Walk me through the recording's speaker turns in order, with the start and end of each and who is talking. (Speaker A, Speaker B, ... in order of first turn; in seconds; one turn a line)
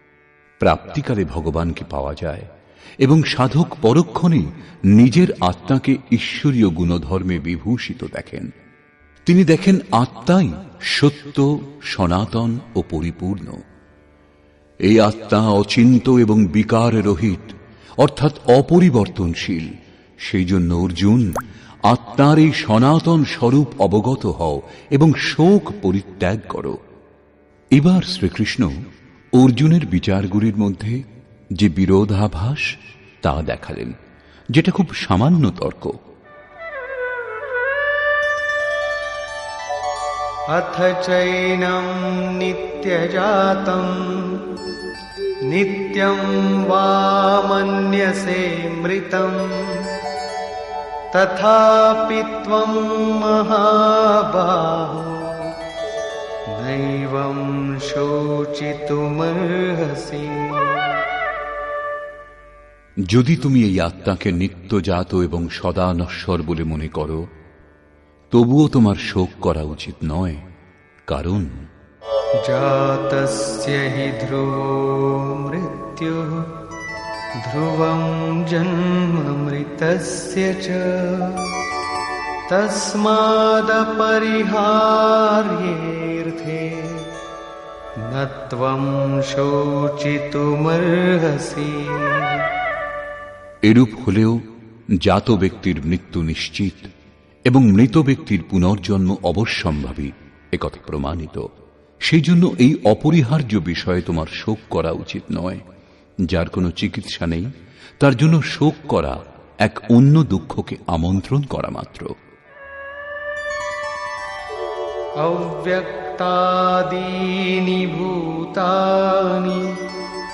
Speaker A: 0.6-2.5
Speaker A: 3.0-8.5
Speaker A: 9.3-13.6
Speaker A: 14.8-26.8
Speaker A: 27.7-28.7
Speaker A: 29.3-31.0
Speaker A: 31.6-34.0
Speaker A: 34.5-36.0
Speaker B: 40.5-44.7
Speaker B: 45.5-50.0
Speaker B: 51.1-55.6
Speaker B: 56.5-61.0
Speaker A: 63.0-67.3
Speaker A: 68.3-70.4
Speaker A: 71.1-71.7
Speaker B: 72.4-76.6
Speaker B: 77.4-81.6
Speaker B: 82.5-87.2
Speaker B: 88.0-92.5
Speaker A: 93.7-94.4
Speaker A: 95.0-96.9
Speaker A: 97.5-101.5
Speaker A: 102.0-105.6
Speaker A: 106.3-112.1
Speaker B: 115.2-119.9